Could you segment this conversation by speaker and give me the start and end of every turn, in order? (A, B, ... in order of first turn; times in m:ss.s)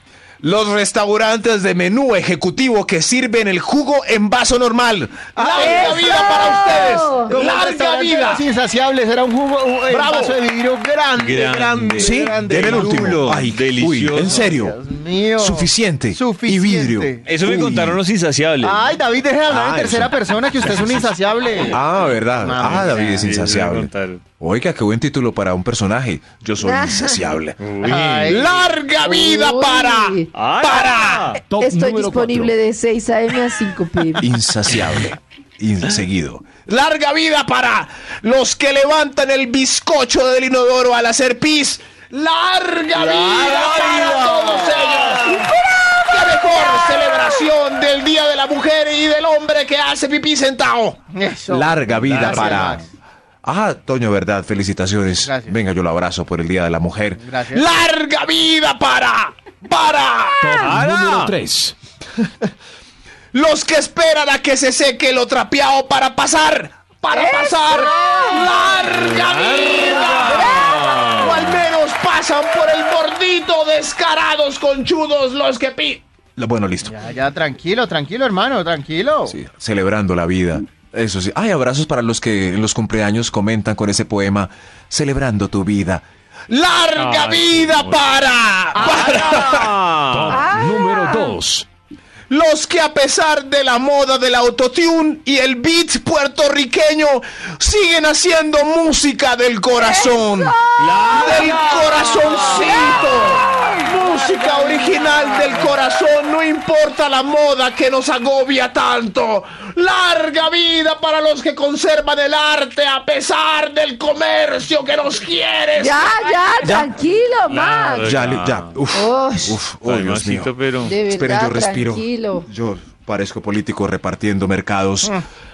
0:00.4-0:08.4 A
0:05.4-0:13.2 B
0:05.5-0:07.3 C
0:09.9-0:11.4 A
0:11.2-0:14.5 D
0:11.9-0:14.8 A
0:14.4-0:17.2 B
0:15.4-0:18.0 A
0:17.2-0:18.9 D
0:18.6-0:21.8 B
0:19.5-0:27.6 A
0:22.4-0:23.3 B
0:22.6-0:24.2 D
0:26.6-0:27.3 C
0:27.6-0:28.4 D
0:27.8-0:28.7 B
0:28.2-0:31.4 A
0:29.0-0:34.3 C
0:30.3-0:31.4 D
0:31.4-0:32.6 E
0:34.2-0:52.8 A
0:42.9-0:45.4 D
0:45.4-0:47.4 C
0:51.1-0:52.9 B
0:52.0-0:52.8 D
0:53.4-1:00.8 A
0:55.2-0:55.6 B
0:57.2-0:57.8 B
1:00.4-1:01.7 E
1:00.6-1:01.4 D
1:03.3-1:16.9 A
1:07.1-1:08.8 C
1:08.8-1:11.6 D
1:09.7-1:11.3 C
1:16.8-1:19.4 B
1:19.3-1:29.8 A
1:26.9-1:28.0 D
1:28.7-1:30.5 D
1:28.9-1:29.3 C
1:30.1-1:31.7 E
1:30.3-1:31.4 C
1:32.3-1:57.0 A
1:39.7-1:45.6 C
1:40.8-1:43.1 D
1:55.7-1:58.1 C
1:57.5-1:58.8 D
1:58.0-2:05.2 A
1:58.9-1:59.6 C
1:59.8-2:00.9 D
2:00.8-2:02.5 C